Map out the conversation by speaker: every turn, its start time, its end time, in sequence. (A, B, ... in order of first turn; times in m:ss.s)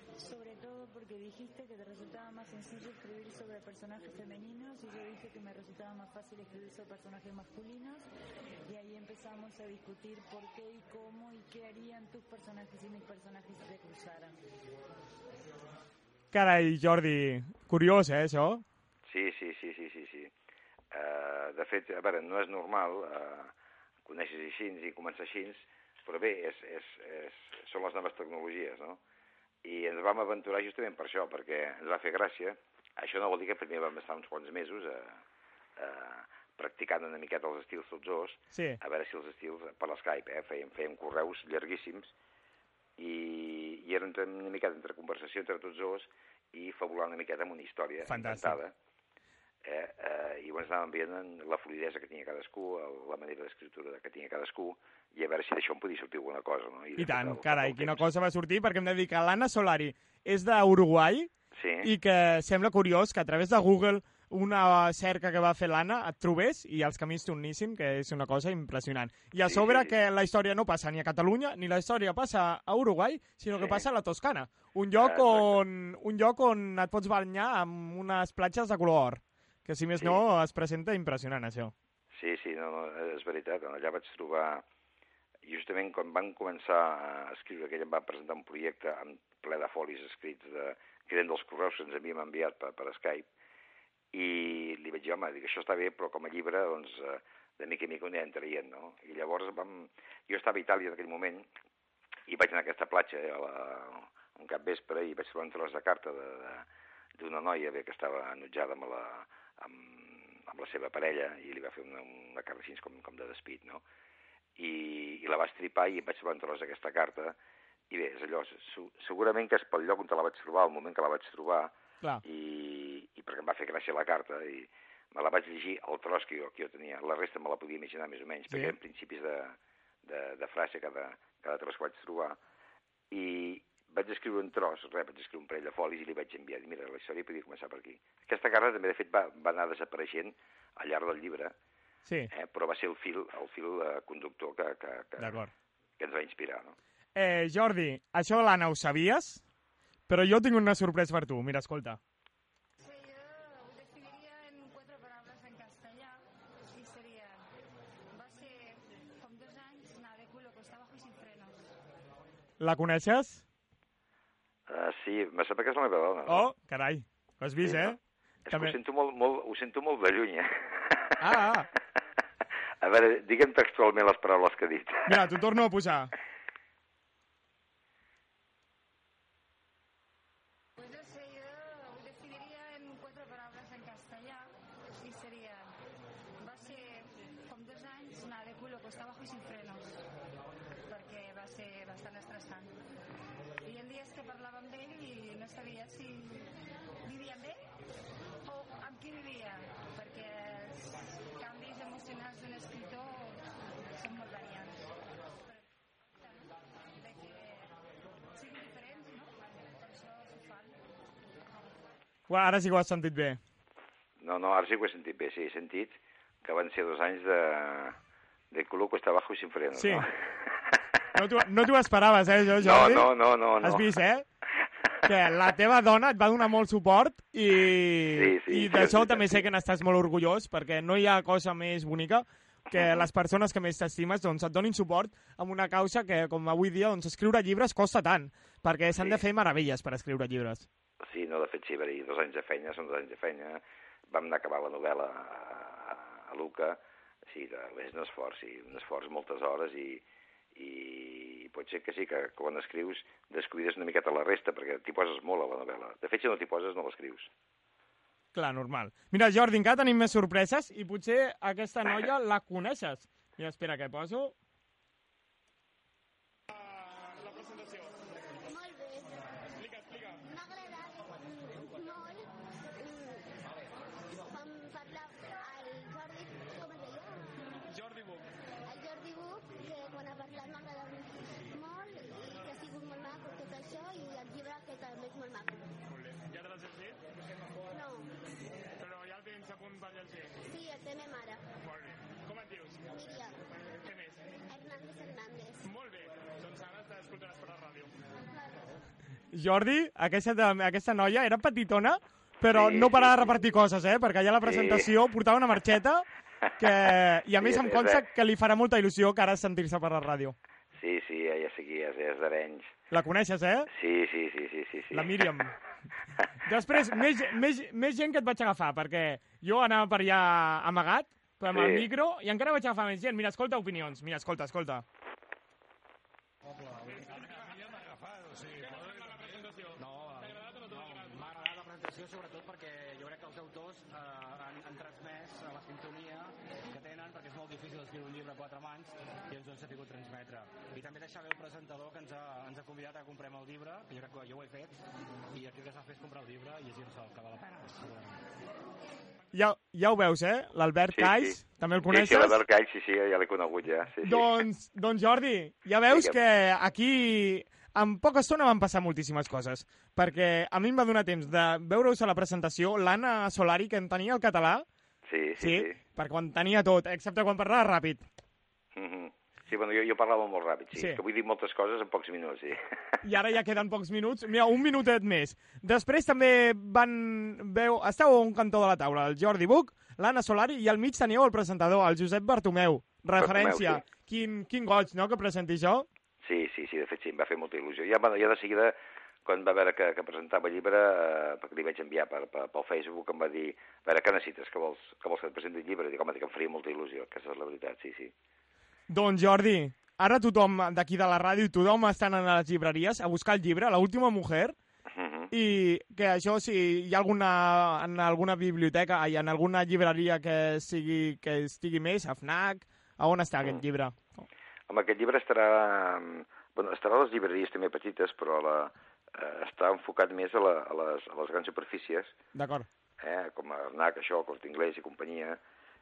0:00.2-0:08.0 A
0:08.7-0:14.4 A
0:16.3-0:18.6 B
0:19.0-0:20.3 C
0:20.9-0:23.5 C
0:24.0-0:29.0 C
0:29.6-0:35.2 C
0:35.8-0:42.1 C
0:38.5-0:38.8 B
0:43.0-0:48.7 C
0:48.0-0:48.6 B
0:49.6-0:58.1 C
0:57.0-1:01.3 B
1:01.5-1:01.9 C
1:01.8-1:21.7 B
1:09.4-1:10.0 C
1:13.5-1:13.8 C
1:15.0-1:15.6 C
1:20.0-1:20.2 C
1:22.1-1:24.6 C
1:25.4-1:33.3 C
1:34.1-1:41.5 C
1:42.3-1:46.6 C
1:47.2-1:53.8 C
1:54.6-1:57.4 C
1:57.9-2:12.4 C
2:08.5-2:08.8 B
2:13.1-2:21.5 C
2:22.0-2:22.3 B
2:22.3-2:25.4 C
2:25.2-2:25.5 B
2:26.0-2:26.8 C
2:27.2-2:29.4 B
2:30.1-2:32.0 B
2:32.8-2:37.4 D
2:38.1-2:41.7 D
2:42.6-2:43.4 B
2:44.7-2:46.5 C
2:46.3-2:48.0 B
2:47.6-2:51.4 C
2:48.5-2:48.8 B
2:51.2-2:51.7 B
2:52.8-2:55.2 C
2:55.1-2:56.1 B
3:00.8-3:05.7 D
3:06.4-3:10.0 D
3:10.9-3:12.7 D
3:13.6-3:16.5 D
3:17.0-3:17.6 D
3:18.4-3:23.4 D
3:23.9-3:24.9 D
3:26.2-3:27.7 D
3:28.3-3:30.8 D
3:32.3-3:33.4 B
3:34.2-3:38.0 C
3:38.5-3:40.1 C
3:39.8-3:40.1 B
3:41.1-3:44.2 B
3:42.6-3:43.9 C
3:45.0-4:00.7 B
3:48.1-3:49.5 C
3:52.7-3:53.1 C
3:59.0-3:59.2 C
4:01.0-4:10.0 C
4:10.5-4:17.3 C
4:18.3-4:24.3 B
4:28.4-4:33.3 E
4:34.3-4:37.5 E
4:38.6-4:45.8 E
4:46.3-4:46.9 B
4:47.7-4:48.1 E
4:48.9-4:50.2 B
4:50.4-4:51.4 E
4:52.8-4:53.4 E
4:54.4-4:55.7 E
4:56.4-4:57.8 B
4:58.3-4:58.7 E
4:59.3-5:06.1 B
5:02.5-5:03.4 C
5:04.4-5:04.9 C
5:06.6-5:10.3 B
5:06.6-5:08.1 C
5:10.8-5:12.7 C
5:12.9-5:13.7 B
5:13.7-5:15.3 C
5:14.9-5:15.5 B
5:16.4-5:24.8 B
5:21.5-5:21.9 C
5:26.5-5:44.8 F
5:45.3-5:48.1 F
5:49.3-5:52.4 B
5:50.9-5:54.3 C
5:54.0-6:04.6 B
5:55.9-5:56.2 C
6:05.1-6:05.8 C
6:05.4-6:08.0 B
6:08.7-6:12.6 C
6:10.8-6:11.0 B
6:13.0-6:25.9 B
6:23.2-6:23.8 C
6:26.2-6:38.1 C
6:38.9-6:44.6 B
6:44.9-6:45.3 C
6:45.3-6:54.2 B
6:54.7-7:02.2 C
7:02.3-7:02.7 B
7:03.0-7:05.4 C